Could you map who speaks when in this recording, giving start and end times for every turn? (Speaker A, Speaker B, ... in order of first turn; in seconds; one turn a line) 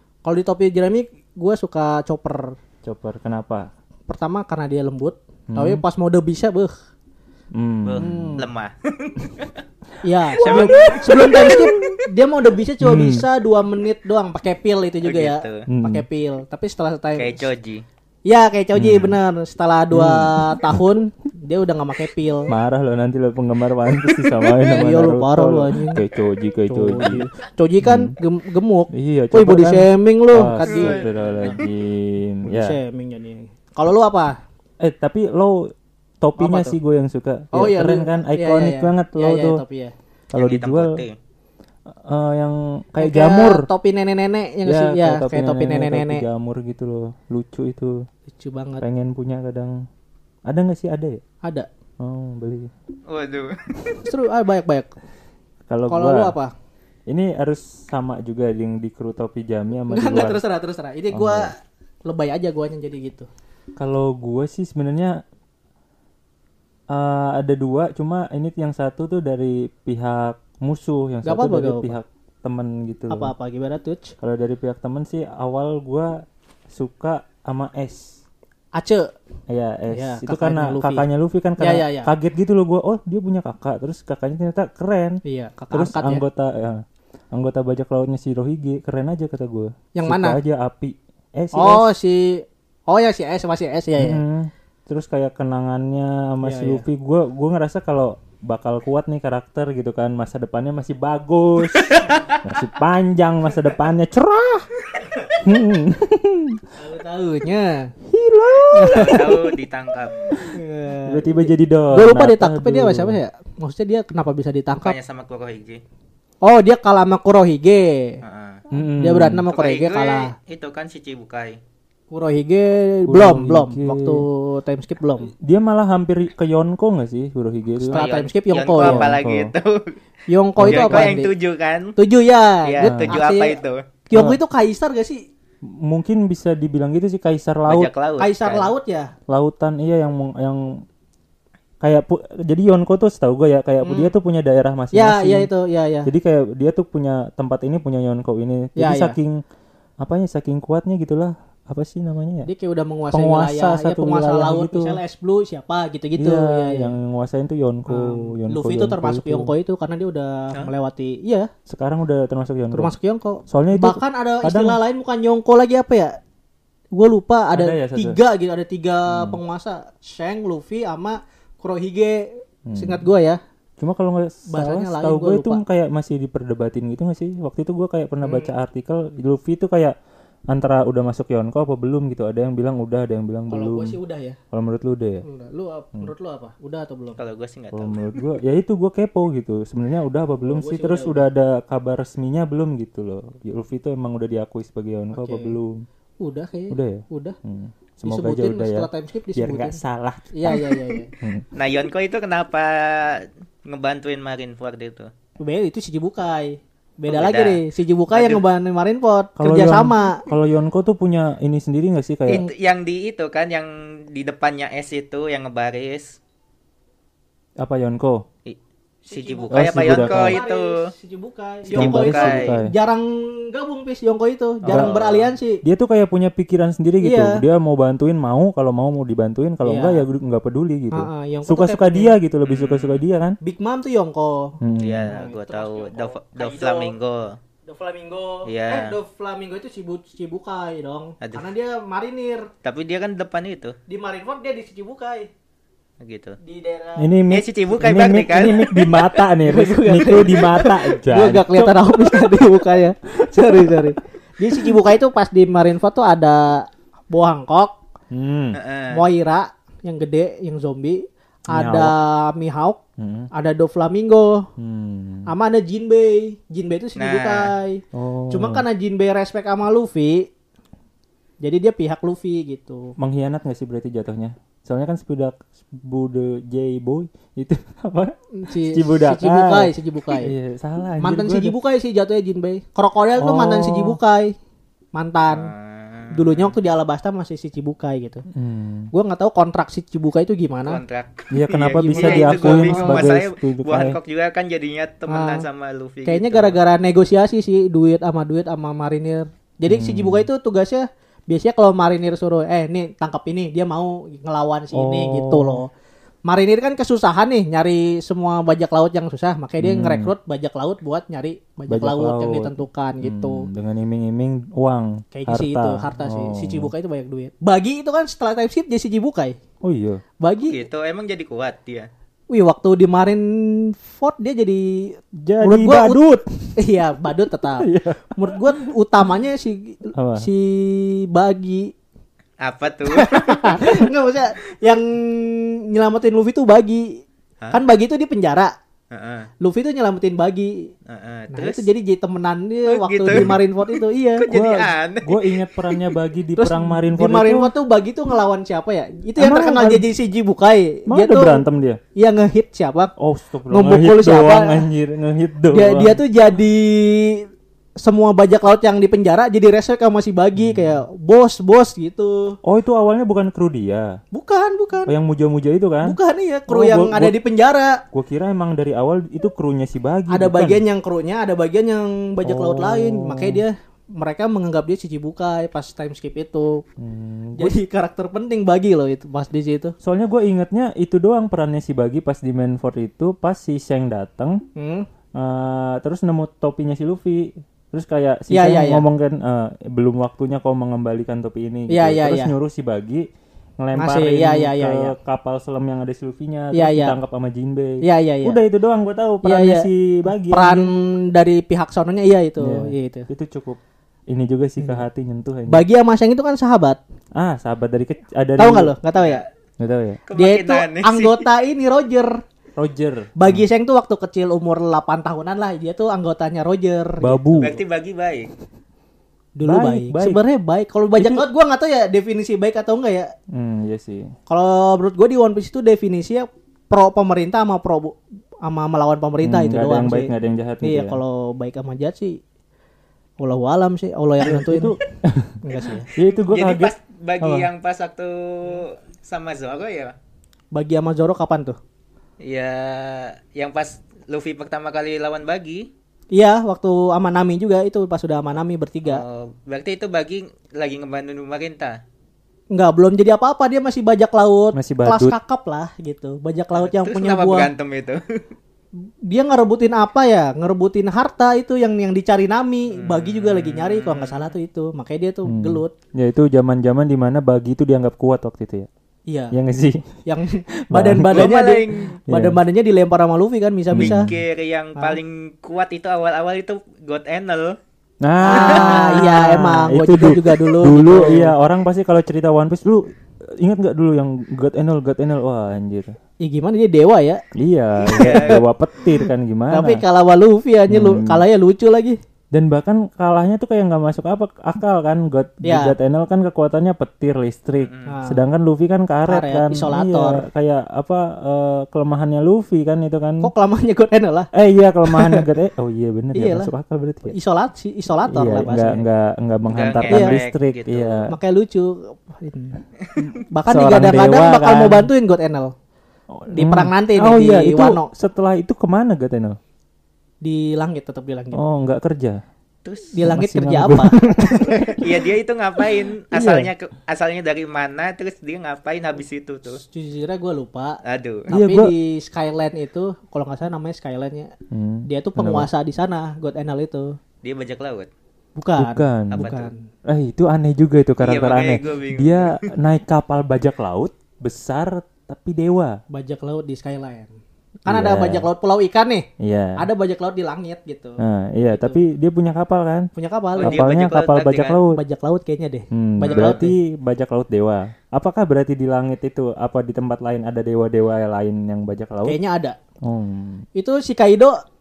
Speaker A: 0.2-2.5
Speaker B: 2.8-3.7
Speaker A: 4.1-6.7
Speaker B: 5.5-5.8
Speaker B: 7.5-8.4
Speaker C: 7.8-9.6
Speaker A: 8.0-8.5
Speaker A: 10.0-17.5
Speaker B: 10.3-11.8
Speaker C: 10.4-12.0
Speaker B: 12.8-13.2
Speaker C: 15.0-15.7
Speaker B: 15.7-16.0
Speaker C: 17.2-17.8
Speaker A: 18.3-22.5
Speaker B: 18.8-19.2
Speaker B: 19.9-20.8
Speaker B: 22.5-27.2
Speaker A: 24.6-26.0
Speaker A: 26.7-31.6
Speaker B: 27.8-28.1
Speaker B: 28.9-32.8
Speaker C: 30.7-31.6
Speaker A: 32.5-34.4
Speaker B: 34.8-35.7
Speaker B: 36.2-39.6
Speaker A: 36.4-36.8
Speaker A: 37.5-40.0
Speaker B: 40.3-41.0
Speaker C: 40.3-41.1
Speaker B: 41.9-43.7
Speaker A: 43.0-46.2
Speaker B: 44.7-48.0
Speaker A: 48.3-48.8
Speaker B: 48.8-49.8
Speaker B: 50.5-51.2
Speaker A: 51.4-51.7
Speaker B: 52.0-52.7
Speaker C: 53.1-54.0
Speaker A: 54.0-54.9
Speaker B: 55.7-56.4
Speaker A: 55.9-56.5
Speaker B: 57.1-60.4
Speaker A: 59.9-63.3
Speaker B: 61.1-61.5
Speaker B: 63.8-65.2
Speaker B: 66.9-73.3
Speaker A: 71.2-72.0
Speaker A: 73.1-74.1
Speaker B: 74.2-78.2
Speaker A: 78.8-79.1
Speaker B: 79.5-85.2
Speaker A: 79.9-81.0
Speaker A: 81.6-82.1
Speaker A: 85.2-86.2
Speaker B: 85.7-91.9
Speaker A: 90.0-90.4
Speaker A: 91.5-94.2
Speaker B: 94.0-104.7
Speaker A: 96.4-96.8
Speaker C: 101.9-102.2
Speaker B: 105.4-106.6
Speaker A: 106.8-107.9
Speaker B: 108.1-109.4
Speaker A: 108.7-109.5
Speaker C: 108.8-110.5
Speaker A: 110.5-115.0
Speaker B: 111.1-113.2
Speaker C: 114.8-115.8
Speaker A: 116.4-118.2
Speaker C: 118.2-118.6
Speaker B: 118.7-119.5
Speaker A: 119.0-120.3
Speaker C: 119.5-121.6
Speaker A: 122.1-125.3
Speaker B: 123.1-124.3
Speaker B: 125.4-128.0
Speaker C: 127.9-129.9
Speaker A: 127.9-129.2
Speaker B: 128.8-129.5
Speaker A: 130.3-131.3
Speaker B: 130.6-131.1
Speaker C: 130.7-131.9
Speaker A: 132.0-135.2
Speaker C: 132.6-133.8
Speaker B: 132.8-133.2
Speaker B: 134.1-134.4
Speaker B: 135.8-137.9
Speaker C: 137.7-138.7
Speaker A: 138.2-139.1
Speaker B: 139.3-140.8
Speaker B: 141.8-145.5
Speaker A: 143.8-144.1
Speaker A: 144.9-146.1
Speaker B: 146.1-149.4
Speaker A: 148.8-149.2
Speaker B: 150.0-152.5
Speaker A: 152.5-156.9
Speaker B: 153.1-155.0
Speaker B: 156.2-159.5
Speaker A: 157.9-161.5
Speaker B: 161.7-162.9
Speaker A: 162.7-166.1
Speaker B: 163.5-164.8
Speaker A: 166.9-173.4
Speaker B: 167.5-168.2
Speaker B: 169.1-169.4
Speaker B: 172.7-173.1
Speaker B: 173.8-180.0
Speaker A: 174.5-175.6
Speaker A: 178.2-178.5
Speaker B: 180.5-184.0
Speaker A: 183.5-184.4
Speaker B: 184.5-185.2
Speaker A: 185.2-187.2
Speaker C: 187.2-188.0
Speaker B: 187.7-195.8
Speaker A: 190.4-191.3
Speaker A: 195.1-195.5
Speaker A: 196.2-197.4
Speaker B: 196.7-200.6
Speaker A: 198.0-199.8
Speaker A: 200.3-201.1
Speaker B: 201.2-201.5
Speaker C: 201.6-205.1
Speaker A: 205.4-210.2
Speaker C: 207.1-208.4
Speaker B: 209.4-212.5
Speaker C: 212.3-216.2
Speaker B: 217.6-218.2
Speaker A: 219.1-225.6
Speaker C: 219.1-220.9
Speaker B: 219.5-220.4
Speaker C: 221.7-222.5
Speaker B: 221.8-222.7
Speaker C: 224.6-225.3
Speaker B: 224.7-225.0
Speaker B: 225.6-233.4
Speaker A: 227.0-227.4
Speaker A: 229.6-230.0
Speaker A: 230.9-232.2
Speaker C: 232.5-233.0
Speaker A: 233.4-234.6
Speaker B: 234.6-235.1
Speaker C: 234.8-237.4
Speaker A: 235.1-236.9
Speaker A: 237.7-242.5
Speaker C: 238.5-239.0
Speaker C: 241.2-241.5
Speaker C: 242.6-243.8
Speaker A: 243.9-245.3
Speaker C: 246.0-246.4
Speaker A: 246.4-247.1
Speaker B: 247.0-252.3
Speaker C: 247.3-248.6
Speaker A: 248.4-257.8
Speaker B: 253.6-253.8
Speaker B: 258.1-258.6
Speaker C: 258.5-259.0
Speaker A: 258.9-262.8
Speaker B: 261.5-261.9
Speaker B: 263.0-263.3
Speaker A: 263.3-264.5
Speaker B: 264.6-265.3
Speaker A: 265.3-270.3
Speaker C: 267.0-267.5
Speaker B: 267.9-268.6
Speaker A: 271.4-272.9
Speaker B: 273.0-281.6
Speaker A: 278.4-280.3
Speaker A: 281.0-284.4
Speaker B: 283.2-284.0
Speaker A: 284.9-285.5
Speaker C: 285.3-286.6
Speaker A: 286.1-288.2
Speaker B: 288.3-288.9
Speaker A: 288.9-290.8
Speaker C: 290.7-296.6
Speaker B: 291.3-294.0
Speaker A: 291.9-293.1
Speaker A: 295.1-295.5
Speaker A: 296.1-305.7
Speaker B: 299.7-300.3
Speaker B: 304.7-305.6
Speaker A: 306.3-313.5
Speaker B: 309.6-310.1
Speaker B: 311.7-316.7
Speaker A: 315.1-319.4
Speaker B: 319.6-320.0
Speaker A: 320.2-320.6
Speaker C: 320.5-321.9
Speaker A: 322.3-326.0
Speaker B: 325.2-326.6
Speaker A: 326.6-331.7
Speaker B: 327.6-328.7
Speaker B: 329.9-330.3
Speaker C: 332.4-333.6
Speaker A: 332.9-337.0
Speaker A: 337.5-338.5
Speaker C: 338.9-339.3
Speaker A: 339.4-340.7
Speaker C: 340.9-341.7
Speaker A: 341.3-344.3
Speaker C: 342.7-345.8
Speaker B: 344.3-347.5
Speaker A: 346.4-352.9
Speaker B: 349.2-349.9
Speaker B: 350.9-351.8
Speaker B: 353.0-356.0
Speaker A: 353.5-354.7
Speaker A: 355.5-362.4
Speaker B: 360.4-360.7
Speaker B: 362.4-364.0
Speaker A: 364.1-364.9
Speaker B: 364.9-366.0
Speaker A: 365.8-367.8
Speaker B: 366.5-367.2
Speaker B: 367.9-370.6
Speaker A: 370.1-376.7
Speaker B: 372.2-373.4
Speaker B: 376.8-377.6
Speaker A: 377.4-379.7
Speaker B: 379.8-384.4
Speaker A: 384.6-384.9
Speaker B: 385.2-393.1
Speaker A: 388.3-388.9
Speaker A: 391.7-392.3
Speaker B: 393.6-400.7
Speaker A: 393.8-394.9
Speaker A: 396.5-397.0
Speaker A: 397.8-398.4
Speaker A: 399.2-399.7
Speaker A: 400.2-403.1
Speaker B: 402.4-403.6
Speaker B: 404.1-405.6
Speaker A: 405.5-406.8
Speaker B: 407.2-408.7
Speaker A: 408.4-409.2
Speaker C: 409.0-409.2
Speaker B: 409.6-410.0
Speaker C: 410.1-411.2
Speaker A: 410.1-412.1
Speaker B: 412.6-413.4
Speaker A: 413.2-417.5
Speaker B: 417.0-417.6
Speaker C: 417.4-418.3
Speaker A: 419.4-423.1
Speaker B: 419.4-420.2
Speaker B: 421.0-421.2
Speaker B: 423.3-424.1
Speaker A: 424.3-430.1
Speaker B: 429.2-431.0
Speaker A: 430.6-432.2
Speaker A: 433.2-434.8
Speaker B: 434.2-435.4
Speaker A: 435.4-435.9
Speaker C: 435.5-440.0
Speaker B: 435.9-437.5
Speaker A: 440.5-441.6
Speaker C: 442.2-445.7
Speaker A: 446.1-449.0
Speaker C: 448.9-451.8
Speaker A: 452.5-457.5
Speaker B: 454.5-455.2
Speaker C: 456.6-458.2
Speaker A: 459.1-465.7
Speaker C: 462.7-464.3
Speaker B: 465.2-468.7
Speaker A: 469.1-469.4
Speaker B: 469.3-469.9
Speaker A: 470.1-474.1
Speaker B: 470.6-471.3
Speaker C: 471.1-472.0
Speaker B: 472.1-472.4
Speaker B: 473.7-474.1
Speaker C: 473.7-477.6
Speaker B: 478.0-486.0
Speaker A: 478.2-481.3
Speaker C: 478.3-478.7
Speaker A: 486.2-487.2
Speaker B: 487.4-489.8
Speaker A: 487.9-488.4
Speaker C: 487.9-488.4
Speaker A: 489.0-492.0
Speaker B: 490.7-491.2
Speaker B: 492.3-503.3
Speaker A: 495.4-495.8
Speaker C: 497.6-498.0
Speaker A: 497.9-498.2
Speaker A: 499.1-500.3
Speaker A: 503.2-504.3
Speaker B: 504.3-507.2
Speaker A: 504.9-505.3
Speaker A: 506.1-506.5
Speaker A: 507.1-508.9
Speaker B: 508.1-511.1
Speaker C: 509.5-511.1
Speaker A: 509.9-510.2
Speaker A: 511.1-512.6
Speaker B: 513.1-514.9
Speaker A: 513.3-515.5
Speaker B: 516.1-519.4
Speaker A: 516.3-517.9
Speaker A: 520.2-521.4
Speaker B: 521.3-522.2
Speaker C: 522.6-523.0
Speaker A: 522.9-524.7
Speaker B: 523.0-524.9
Speaker C: 524.5-529.6
Speaker B: 526.1-526.5
Speaker A: 529.5-534.3
Speaker C: 530.9-531.3
Speaker B: 531.3-531.7
Speaker B: 534.5-535.5
Speaker A: 534.9-537.0
Speaker C: 537.2-537.9
Speaker A: 538.4-539.6
Speaker B: 538.6-539.3
Speaker C: 539.1-539.5
Speaker B: 539.9-545.8
Speaker C: 541.0-542.4
Speaker A: 545.9-547.1
Speaker A: 547.6-551.8
Speaker B: 547.7-548.3
Speaker B: 549.2-549.6
Speaker B: 551.0-552.9
Speaker A: 553.0-553.6
Speaker C: 553.4-554.6
Speaker B: 553.4-554.8
Speaker A: 554.7-556.5
Speaker B: 555.7-562.2
Speaker C: 556.1-556.4
Speaker A: 562.0-562.6
Speaker B: 562.8-563.5
Speaker A: 563.5-564.4